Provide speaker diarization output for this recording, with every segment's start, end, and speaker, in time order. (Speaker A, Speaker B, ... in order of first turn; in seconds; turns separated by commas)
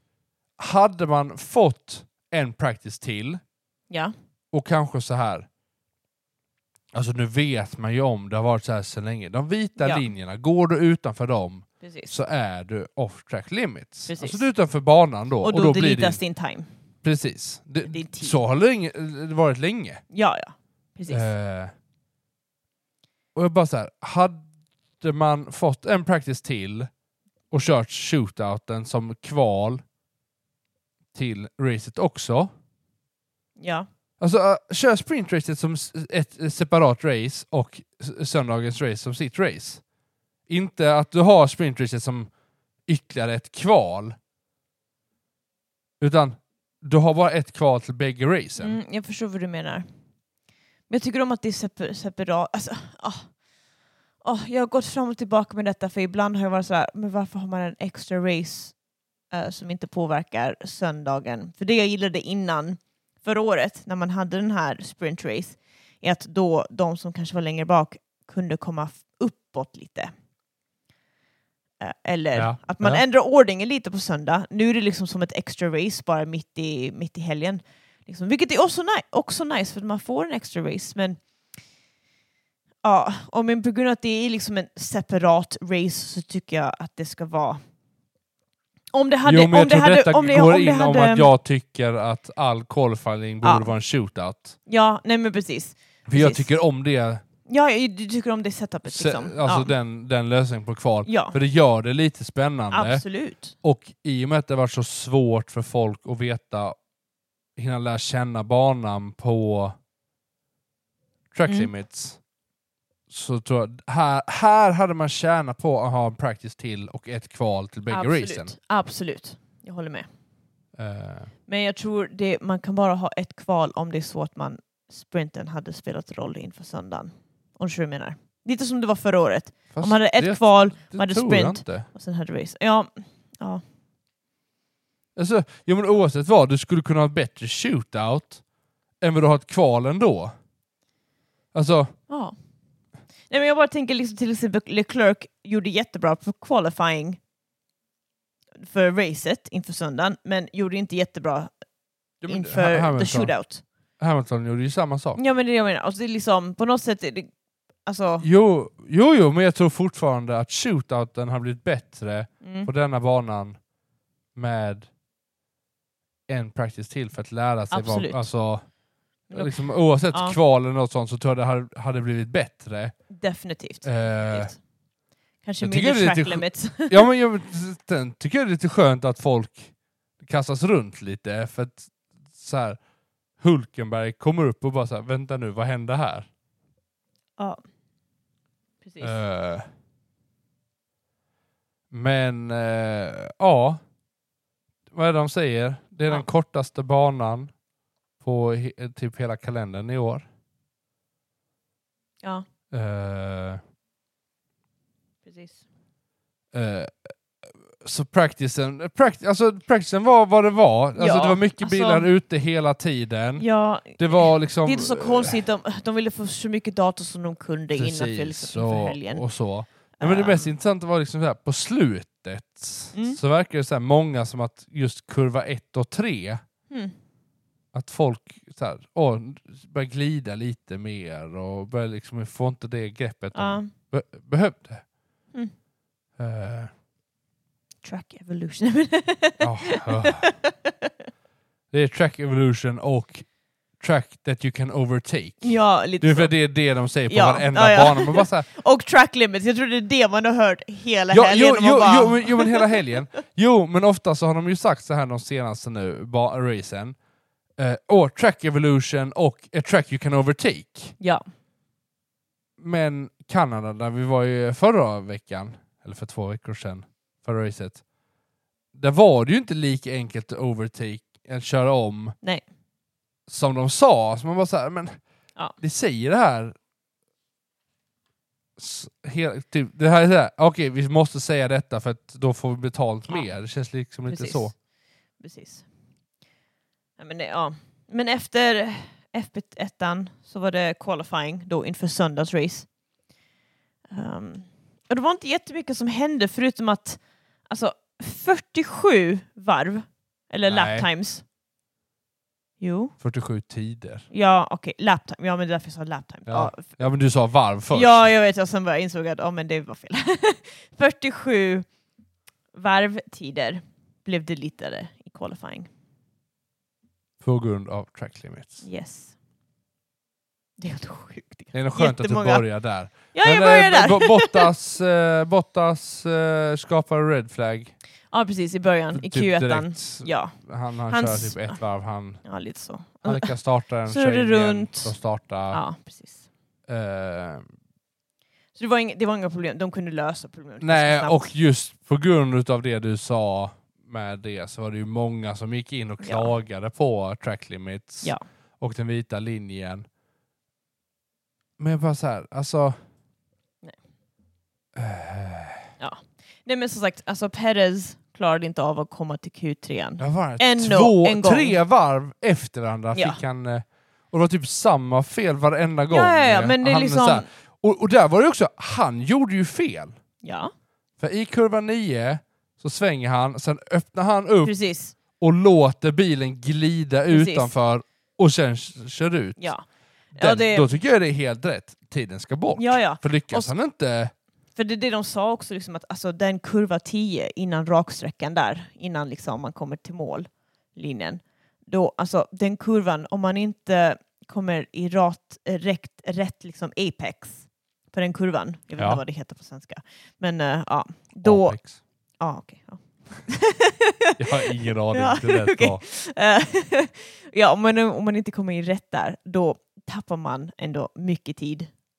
Speaker A: 0.6-3.4, Speaker A: 4.5-5.5, Speaker A: 6.9-16.2, Speaker B: 9.8-10.1, Speaker B: 11.8-12.2, Speaker B: 14.1-14.5, Speaker B: 15.4-16.7, Speaker A: 17.0-20.0, Speaker B: 17.9-18.4, Speaker B: 20.1-21.3, Speaker A: 21.1-21.7, Speaker A: 23.4-24.5, Speaker A: 25.0-26.9, Speaker A: 27.5-29.8, Speaker A: 31.1-32.5, Speaker B: 33.6-33.9, Speaker A: 34.2-39.8, Speaker A: 40.5-42.3, Speaker A: 42.9-44.2, Speaker A: 46.0-48.8, Speaker B: 48.6-49.9, Speaker B: 50.9-53.3, Speaker B: 54.2-58.8, Speaker B: 59.3-70.1, Speaker B: 71.8-81.2, Speaker A: 72.4-73.0, Speaker B: 82.8-87.6, Speaker B: 88.9-91.3, Speaker A: 89.2-94.6, Speaker B: 93.4-93.7, Speaker B: 94.7-96.5, Speaker A: 96.1-97.2, Speaker B: 97.5-99.7, Speaker A: 98.9-103.0, Speaker B: 101.1-101.4, Speaker B: 102.7-103.5, Speaker A: 103.6-106.8, Speaker A: 107.6-109.8, Speaker A: 111.3-112.2, Speaker A: 113.1-118.5, Speaker B: 117.9-120.1, Speaker A: 120.8-121.3, Speaker B: 121.5-133.6, Speaker A: 129.7-131.9, Speaker A: 135.2-138.4, Speaker A: 139.0-140.3, Speaker A: 141.5-141.9, Speaker B: 142.1-142.3, Speaker B: 143.3-147.2, Speaker B: 148.6-151.5, Speaker A: 152.2-153.3, Speaker B: 152.3-153.6, Speaker A: 154.0-155.2, Speaker B: 155.2-157.3, Speaker B: 157.8-158.3, Speaker A: 158.2-163.6, Speaker B: 162.4-162.7, Speaker A: 164.3-164.9, Speaker A: 166.3-168.6, Speaker B: 167.7-168.3, Speaker B: 169.3-169.6, Speaker A: 169.3-172.9, Speaker B: 170.1-170.4, Speaker B: 173.1-174.6, Speaker A: 173.8-174.5, Speaker B: 175.4-177.1, Speaker A: 175.6-182.8, Speaker A: 183.4-186.3, Speaker B: 188.8-189.2, Speaker A: 189.0-189.7, Speaker A: 191.9-193.8, Speaker A: 194.9-197.5, Speaker A: 198.2-200.3, Speaker A: 202.7-203.6, Speaker B: 205.2-205.6, Speaker A: 206.5-215.4, Speaker B: 211.0-212.1, Speaker B: 213.4-219.2, Speaker A: 217.7-226.4, Speaker B: 220.0-220.5, Speaker B: 222.9-223.2, Speaker A: 227.7-234.8, Speaker B: 233.3-233.7, Speaker A: 236.2-236.7, Speaker B: 237.8-240.9, Speaker A: 239.4-240.3, Speaker A: 241.7-243.3, Speaker A: 243.8-248.5, Speaker B: 245.4-246.3, Speaker B: 247.1-252.8, Speaker A: 251.1-257.0, Speaker A: 257.6-261.0, Speaker A: 262.6-267.8, Speaker A: 268.7-272.2, Speaker A: 273.3-275.0, Speaker A: 275.6-276.6, Speaker A: 278.6-284.5, Speaker B: 284.1-284.5, Speaker B: 285.2-285.7, Speaker B: 287.0-292.7, Speaker B: 293.9-301.2, Speaker A: 300.5-300.9, Speaker B: 302.6-302.9, Speaker A: 303.0-304.1, Speaker B: 304.1-306.8, Speaker A: 306.3-308.1, Speaker B: 307.7-311.7, Speaker B: 312.5-315.7, Speaker A: 317.2-318.6, Speaker B: 318.6-319.1, Speaker B: 320.6-324.5, Speaker A: 321.5-327.7, Speaker B: 328.1-330.4, Speaker A: 328.9-332.2, Speaker B: 330.9-331.6, Speaker B: 332.2-333.3, Speaker A: 333.1-335.6, Speaker B: 333.9-334.9, Speaker B: 335.5-336.2, Speaker A: 336.7-337.4, Speaker B: 338.6-341.3, Speaker A: 340.6-349.9, Speaker B: 346.0-346.4, Speaker A: 351.6-352.8, Speaker A: 354.8-355.7, Speaker B: 355.8-361.6, Speaker A: 360.0-369.9, Speaker B: 362.9-363.2, Speaker B: 365.9-367.3, Speaker B: 370.2-370.5, Speaker A: 371.0-374.6, Speaker B: 374.4-374.9, Speaker A: 375.1-379.5, Speaker B: 377.1-377.5, Speaker B: 379.4-379.6, Speaker B: 380.1-380.7, Speaker A: 380.2-384.1, Speaker B: 382.6-383.5, Speaker B: 384.6-401.6, Speaker A: 398.8-399.0, Speaker A: 401.2-401.8, Speaker B: 402.2-411.7, Speaker A: 404.2-405.8